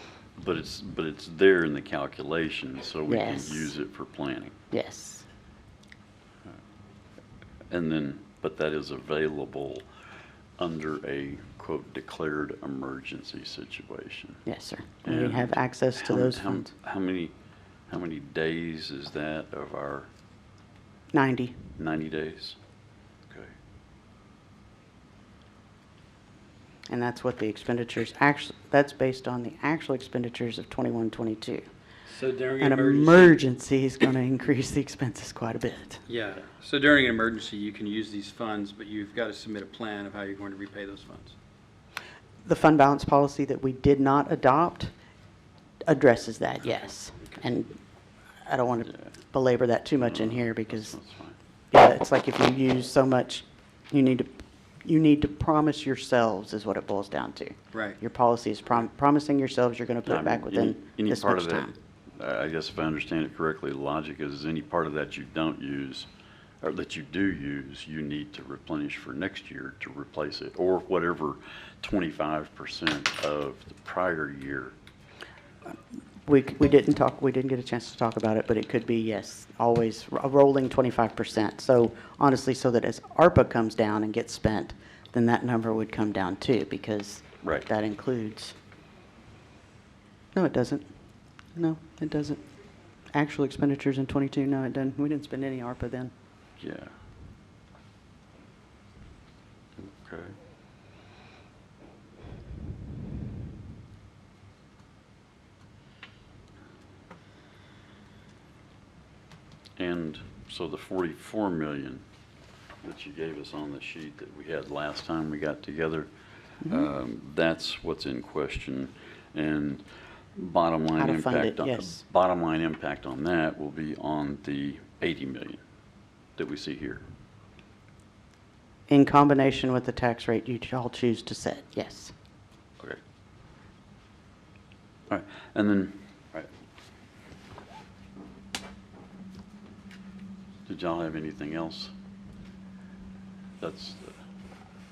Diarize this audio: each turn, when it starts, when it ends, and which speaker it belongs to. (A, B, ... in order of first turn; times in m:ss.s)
0:00.4-0:04.6 A
0:03.1-0:03.8 B
0:04.7-0:05.3 B
0:07.7-0:09.9 A
0:10.6-0:14.4 A
0:14.5-0:16.7 B
0:15.0-0:17.3 A
0:17.9-0:20.1 A
0:21.1-0:21.6 B
0:21.8-0:22.6 A
0:26.9-0:31.6 B
0:32.1-0:33.4 C
0:32.6-0:36.0 B
0:36.1-0:41.3 C
0:42.4-0:44.9 B
0:45.9-0:47.8 B
0:48.4-0:51.0 B
0:50.0-0:51.4 A
0:51.7-0:54.3 B
0:54.8-1:01.8 B
0:57.7-0:58.0 C
1:00.1-1:06.1 A
1:06.6-1:14.7 A
1:16.2-1:28.6 B
1:27.4-1:27.7 A
1:30.3-1:30.9 B
1:31.6-1:32.4 B
1:33.1-1:36.1 B
1:36.6-1:36.9 A
1:39.8-1:40.4 A
1:49.8-1:52.0 A
1:52.8-2:05.6 A
2:01.0-2:02.0 B
2:06.4-2:07.0 A
2:08.9-2:12.1 B
2:15.1-2:16.5 A
2:20.7-2:21.9 A
2:23.6-2:24.2 A